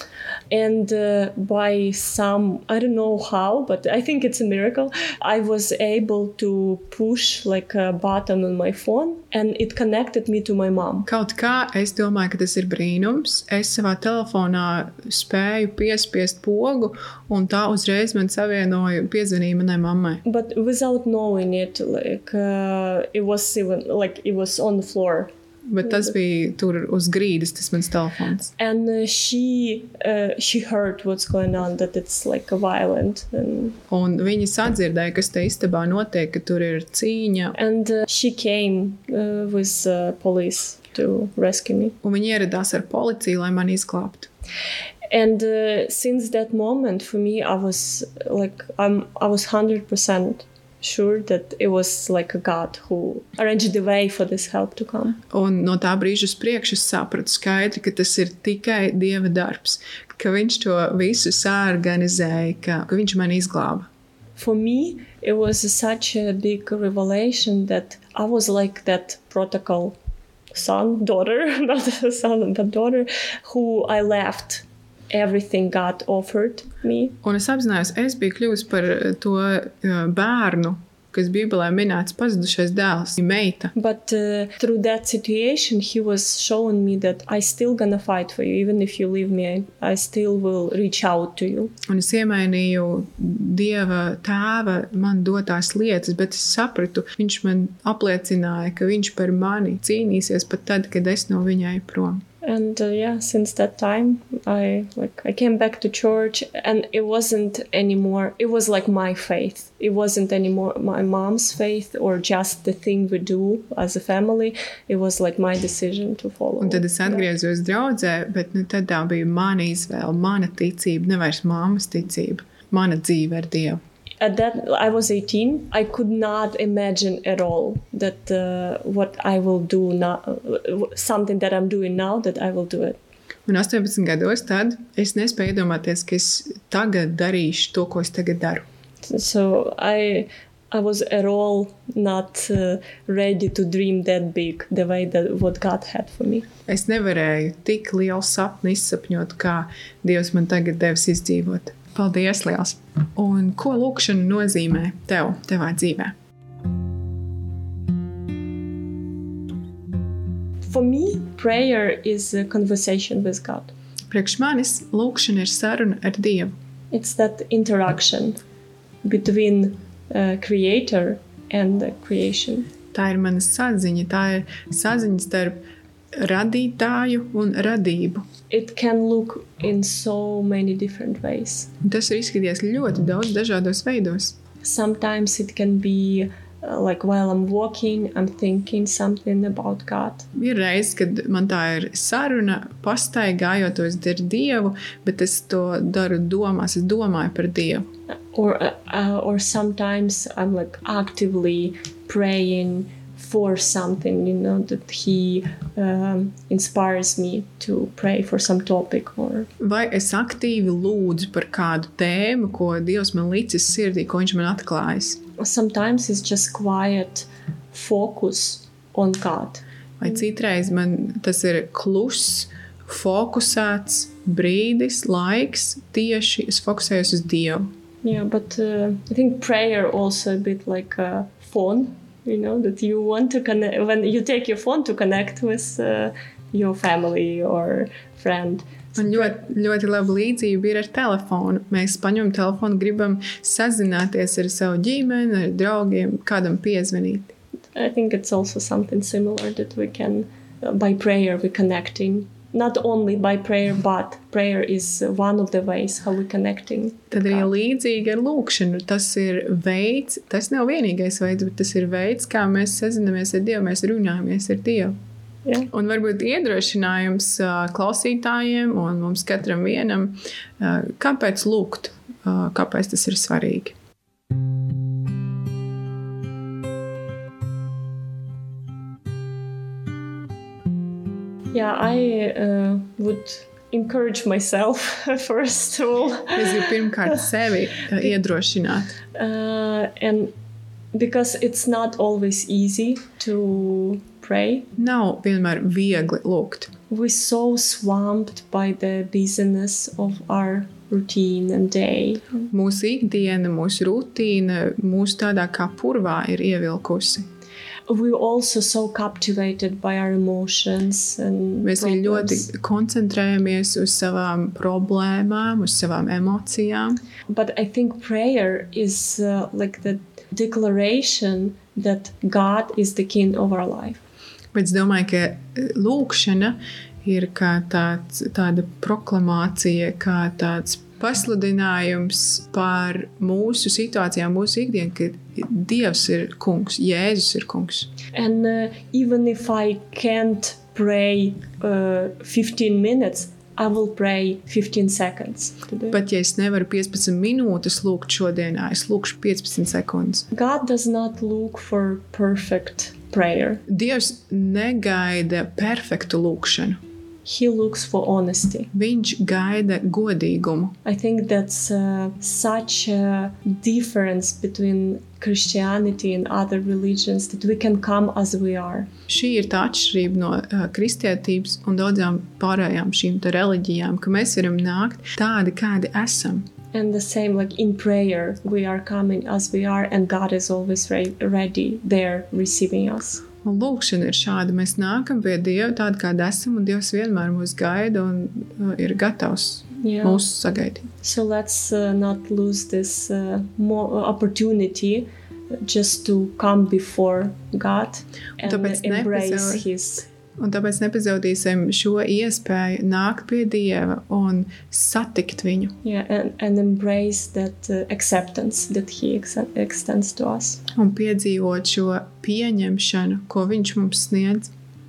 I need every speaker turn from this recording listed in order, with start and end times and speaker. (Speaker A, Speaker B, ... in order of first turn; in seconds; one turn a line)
Speaker A: 0.5-11.1
Speaker B: 11.1-20.2
Speaker A: 20.2-25.3
Speaker B: 25.7-28.5
Speaker A: 25.8-26.1
Speaker A: 28.6-33.8
Speaker B: 33.9-37.5
Speaker A: 37.5-42.0
Speaker B: 42.0-44.3
Speaker A: 45.1-55.2
Speaker B: 55.3-63.9
Speaker A: 64.4-70.0
Speaker A: 70.5-77.2
Speaker B: 77.2-83.7
Speaker A: 83.7-91.7
Speaker B: 91.9-102.2
Speaker A: 102.4-117.3
Speaker B: 116.6-123.8
Speaker A: 124.2-133.0
Speaker B: 133.5-138.7
Speaker A: 139.0-146.5
Speaker B: 146.7-156.1
Speaker A: 160.6-163.7
Speaker B: 164.1-166.5
Speaker A: 166.9-168.4
Speaker A: 169.0-172.7
Speaker B: 172.9-175.6
Speaker B: 176.2-178.2
Speaker A: 178.5-181.7
Speaker B: 181.8-184.4
Speaker A: 184.6-190.3
Speaker B: 190.3-197.9
Speaker A: 198.3-209.5
Speaker B: 209.6-215.2
Speaker A: 215.4-219.6
Speaker B: 220.0-227.7
Speaker A: 228.0-239.3
Speaker B: 238.9-247.3
Speaker A: 247.7-257.5
Speaker B: 257.1-264.9
Speaker A: 265.4-265.7
Speaker B: 265.7-273.7
Speaker A: 281.5-287.1
Speaker B: 286.3-288.9
Speaker A: 289.1-290.3
Speaker A: 290.9-294.7
Speaker B: 294.8-296.7
Speaker A: 296.9-302.4
Speaker B: 302.5-307.3
Speaker A: 307.9-312.5
Speaker B: 311.6-317.0
Speaker A: 317.3-324.0
Speaker B: 324.5-337.9
Speaker A: 338.1-346.0
Speaker B: 345.9-350.3
Speaker A: 350.3-353.6
Speaker B: 353.7-356.8
Speaker A: 357.2-358.7
Speaker B: 358.7-360.7
Speaker A: 360.8-368.9
Speaker B: 369.1-376.5
Speaker A: 376.7-383.2
Speaker B: 383.4-390.9
Speaker A: 389.8-390.2
Speaker A: 391.0-400.1
Speaker B: 398.4-399.6
Speaker B: 400.4-405.7
Speaker A: 405.8-410.6
Speaker B: 410.7-414.5